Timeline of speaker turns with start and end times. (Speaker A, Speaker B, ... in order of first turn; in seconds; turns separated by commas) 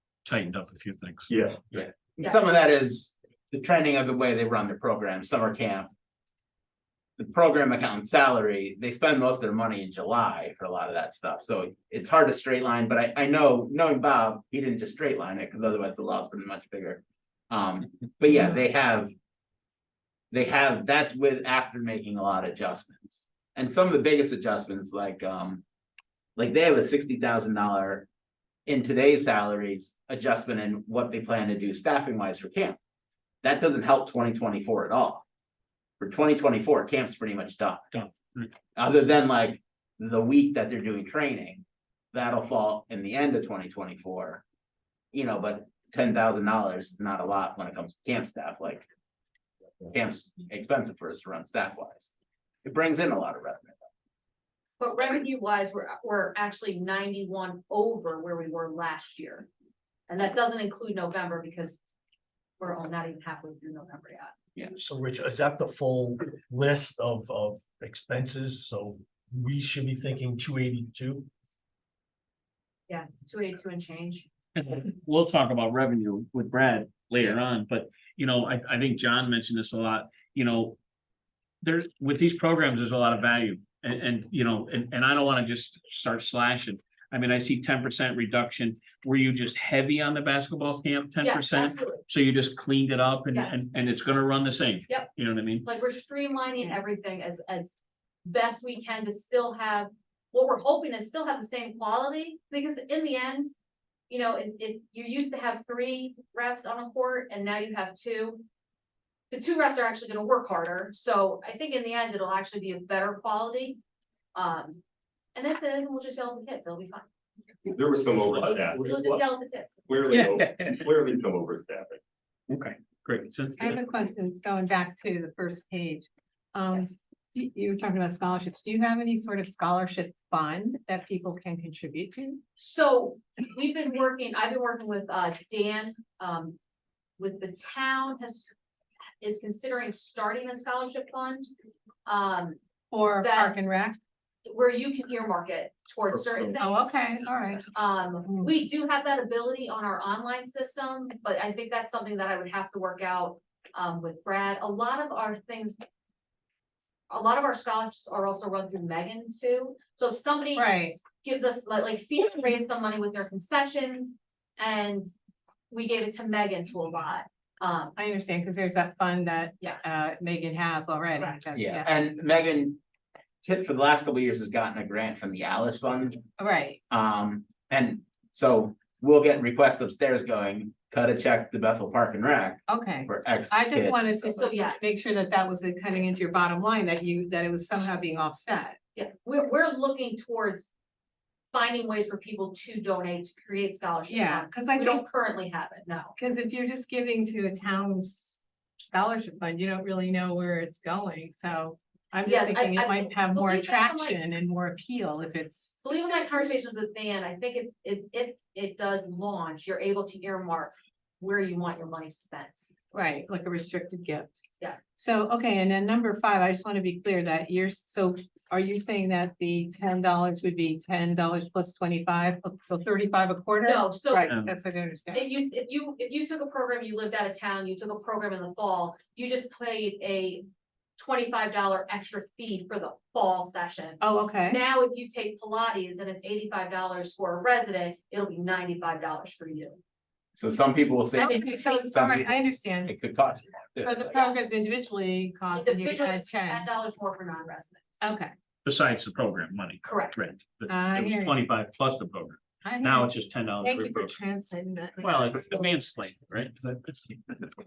Speaker A: 0.2-1.3, Speaker B: 1.3-1.6, Speaker C: 1.7-5.9, Speaker C: 7.2-19.1, Speaker C: 20.3-25.6, Speaker C: 26.4-28.1, Speaker C: 28.7-32.8, Speaker C: 33.4-35.2, Speaker C: 36.0-37.9, Speaker A: 37.9-38.5, Speaker C: 38.8-44.4, Speaker C: 45.1-48.9, Speaker C: 49.8-52.1, Speaker C: 52.6-53.8, Speaker D: 54.8-59.5, Speaker D: 60.1-61.8, Speaker D: 62.6-64.3, Speaker E: 64.7-71.3, Speaker D: 72.9-74.3, Speaker A: 74.5-80.8, Speaker A: 81.6-95.7, Speaker D: 91.2-92.0, Speaker D: 93.3-93.7, Speaker D: 94.9-95.1, Speaker D: 95.6-103.5, Speaker D: 104.1-108.4, Speaker D: 109.3-113.8, Speaker D: 114.3-114.8, Speaker D: 115.3-117.0, Speaker B: 117.7-119.2, Speaker D: 118.7-120.0, Speaker B: 119.9-122.0, Speaker A: 120.1-120.9, Speaker A: 122.5-123.8, Speaker F: 123.6-132.4, Speaker D: 132.6-136.6, Speaker D: 137.2-138.5, Speaker D: 139.2-141.5, Speaker D: 142.1-142.6, Speaker F: 142.9-144.0, Speaker D: 143.2-143.6, Speaker D: 144.4-147.0, Speaker F: 146.6-147.7, Speaker D: 147.7-155.8, Speaker F: 148.2-148.5, Speaker D: 157.1-165.1, Speaker F: 160.5-161.0, Speaker D: 165.7-167.9, Speaker F: 167.9-171.9, Speaker C: 171.5-172.8, Speaker C: 173.4-176.2, Speaker F: 176.4-176.8, Speaker C: 176.9-184.0, Speaker F: 182.7-188.8, Speaker D: 184.2-184.9, Speaker D: 188.9-190.7, Speaker D: 191.5-196.2, Speaker F: 194.1-195.0, Speaker F: 196.2-206.5, Speaker D: 202.2-204.2, Speaker D: 205.8-212.7, Speaker F: 212.9-214.4, Speaker F: 214.9-225.2, Speaker D: 223.6-224.3, Speaker A: 224.3-224.5, Speaker D: 225.1-230.4, Speaker D: 231.0-239.8, Speaker F: 234.0-234.6, Speaker C: 240.4-244.2, Speaker F: 241.2-242.9, Speaker D: 241.3-241.7, Speaker F: 243.8-246.7, Speaker D: 245.5-248.0, Speaker F: 248.0-248.3, Speaker A: 248.6-254.2, Speaker D: 249.8-250.2, Speaker F: 250.7-251.4, Speaker F: 252.6-255.9, Speaker A: 255.0-257.4